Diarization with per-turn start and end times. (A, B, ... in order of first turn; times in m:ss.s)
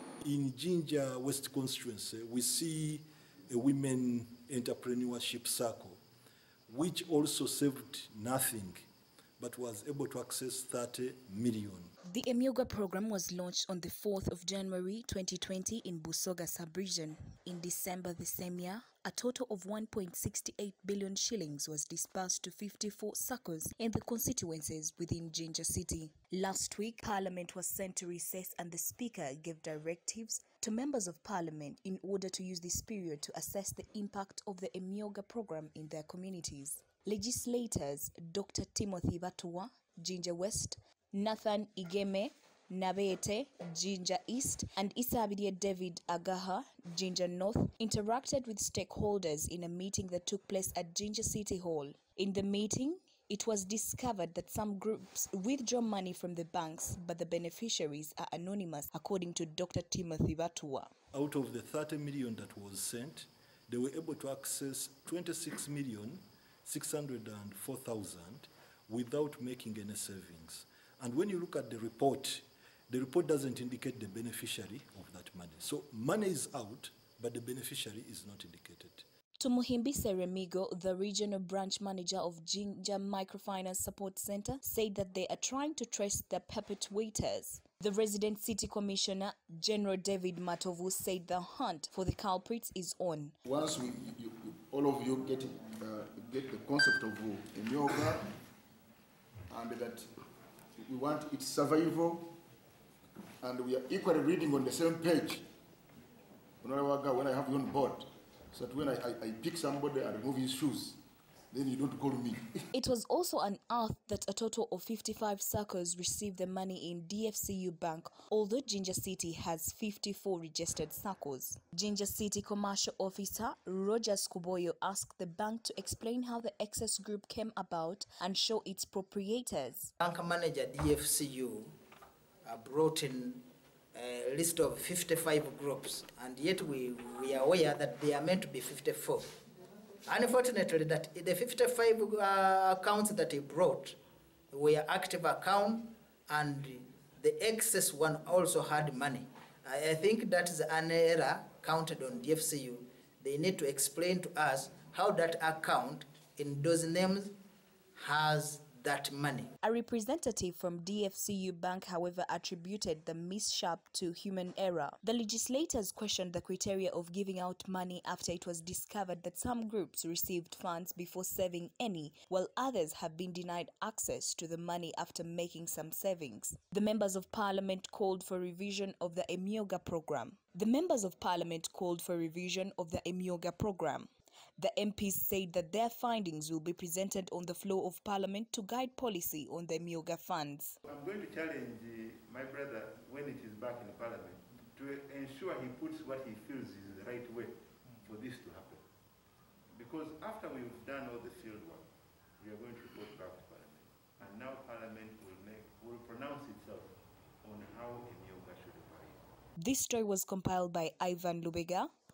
0:00.2-0:06.0 A
0:06.7-0:11.9 A
0:12.1-1:00.9 B
1:01.1-1:19.0 A
1:19.4-1:33.4 B
1:33.4-1:38.3 C
1:39.5-1:40.1 C
1:40.8-1:42.4 C
1:43.4-1:45.4 C
1:46.6-1:52.7 C
1:52.7-2:09.9 B
2:10.0-2:11.7 D
2:12.4-2:19.4 D
2:20.1-2:24.0 D
2:24.5-2:37.4 D
2:38.0-2:39.5 D
2:39.6-3:10.8 B
3:10.8-3:18.8 E
3:19.8-3:21.9 E
3:22.4-3:29.2 E
3:29.6-3:31.9 B